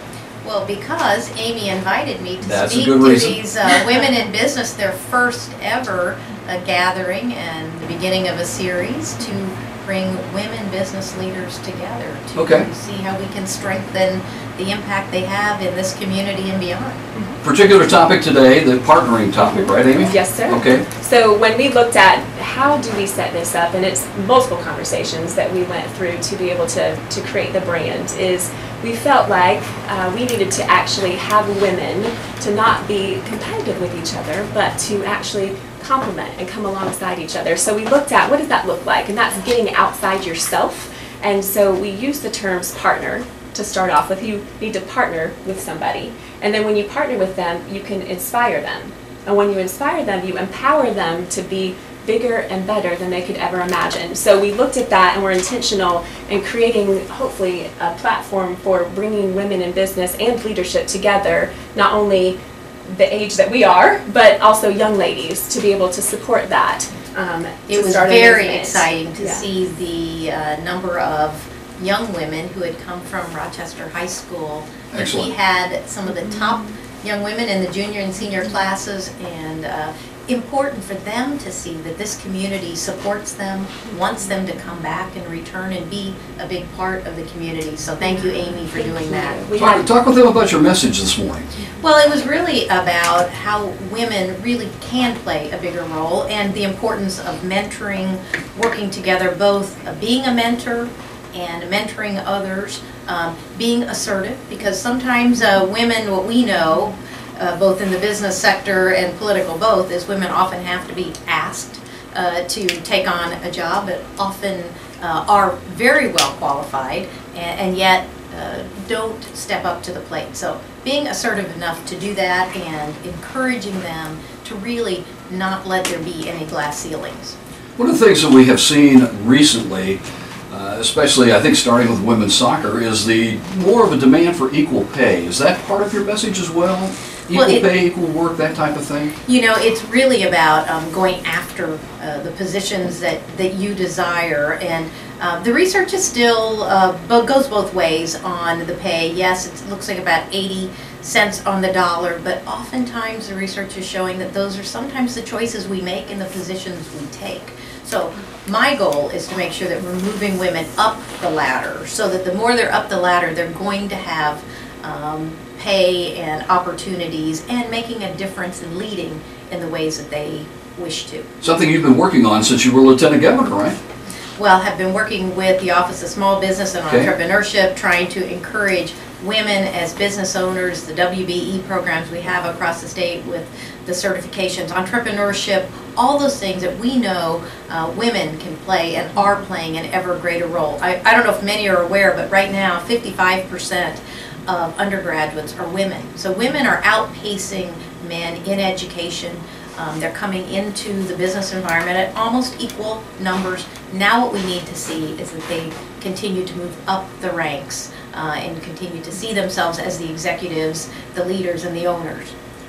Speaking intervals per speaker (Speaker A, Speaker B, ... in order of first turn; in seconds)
Speaker A: 0.4-17.0, 67.7-89.4, 91.8-127.3, 137.3-137.7, 139.2-171.3, 174.4-212.3
Speaker B: 2.4-3.4, 12.3-12.7, 17.4-20.9, 74.9-75.3, 89.5-91.5, 127.8-139.1, 171.4-173.8
Speaker C: 19.4-69.5, 88.0-89.9